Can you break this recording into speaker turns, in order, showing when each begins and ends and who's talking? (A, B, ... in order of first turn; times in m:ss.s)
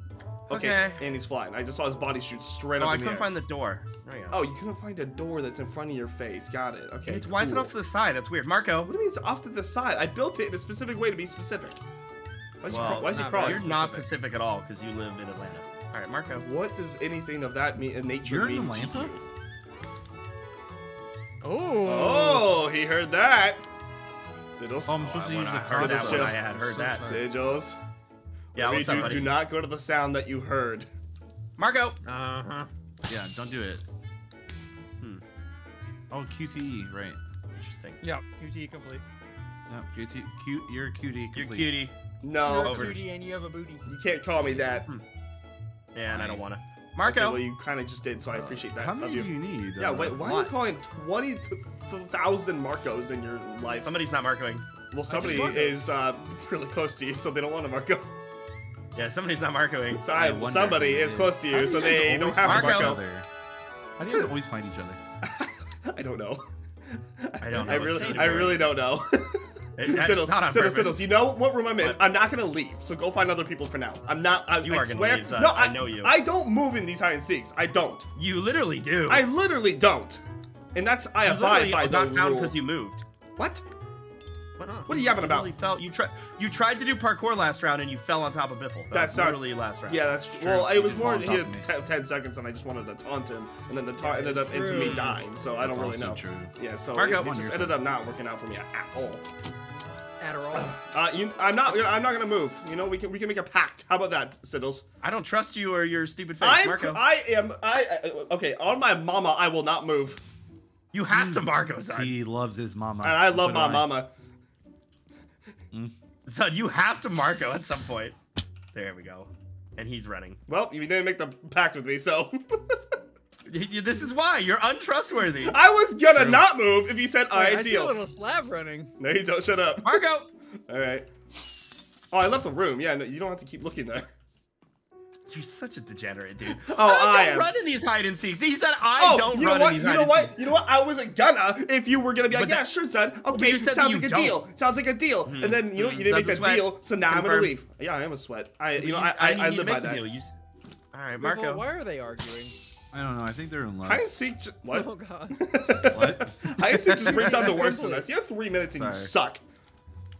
0:00.5-0:01.0 A
0:00.5-0:03.3 B
0:02.8-0:04.4 A
0:04.3-0:07.7 B
0:07.1-0:08.9 A
0:08.9-0:11.8 B
0:12.6-0:13.7 B
0:12.7-0:16.5 A
0:13.0-0:14.1 C
0:16.4-0:19.2 B
0:18.2-0:19.1 D
0:21.4-0:22.6 C
0:21.8-0:23.6 B
0:24.5-0:27.8 B
0:24.9-0:27.2 D
0:25.1-0:27.1 A
0:28.6-0:29.4 A
0:28.6-0:30.9 B
0:31.6-0:32.0 A
0:32.0-0:32.7 C
0:33.1-0:33.8 D
0:36.1-0:37.2 D
0:37.6-0:38.0 A
0:38.0-0:39.0 C
0:39.7-0:41.9 D
0:41.3-0:41.9 A
0:42.2-0:42.9 B
0:42.4-0:43.9 C
0:42.6-0:43.0 A
0:42.6-0:43.0 D
0:43.9-0:44.9 B
0:44.5-0:45.0 A
0:45.9-0:47.4 A
0:46.1-0:46.4 D
0:47.0-0:54.0 B
0:48.4-0:50.6 D
0:53.7-0:55.8 A
0:54.9-0:58.1 B
0:55.1-0:55.7 C
0:59.0-1:00.1 A
1:00.0-1:03.0 B
1:00.1-1:03.3 D
1:01.9-1:03.0 A
1:04.0-1:04.3 C
1:04.0-1:05.0 D
1:05.2-1:18.1 B
1:07.4-1:08.7 A
1:07.5-1:08.6 C
1:09.8-1:11.2 A
1:11.8-1:12.1 A
1:14.6-1:16.1 A
1:18.2-1:19.3 A
1:19.1-1:20.2 B
1:20.8-1:22.6 B
1:21.2-1:23.0 A
1:23.4-1:23.6 B
1:24.6-1:30.0 A
1:24.9-1:25.5 B
1:28.9-1:39.2 B
1:30.3-1:31.7 D
1:34.0-1:35.1 C
1:34.6-1:35.2 A
1:35.6-1:36.5 D
1:37.0-1:37.3 A
1:37.0-1:37.8 D
1:40.2-1:40.7 C
1:40.5-1:44.9 B
1:45.0-1:47.0 A
1:46.4-1:50.2 B
1:50.9-1:52.1 A
1:51.1-1:53.9 D
1:53.0-1:54.1 B
1:56.3-1:58.2 A
1:58.7-2:00.4 A
2:00.5-2:02.8 B
2:03.5-2:05.6 A
2:05.4-2:08.0 B
2:06.1-2:06.5 D
2:07.3-2:08.9 C
2:09.0-2:10.0 B
2:09.8-2:10.3 A
2:10.7-2:11.1 B
2:12.1-2:14.1 B
2:15.3-2:20.4 A
2:16.5-2:17.5 B
2:19.0-2:30.1 B
2:22.3-2:22.7 A
2:23.3-2:24.4 A
2:25.2-2:27.6 A
2:28.7-2:30.4 A
2:30.9-2:31.7 A
2:31.2-2:32.6 C
2:32.9-2:34.1 D
2:33.8-2:39.4 B
2:34.7-2:35.4 C
2:35.9-2:37.7 D
2:37.0-2:38.0 C
2:38.8-2:39.1 D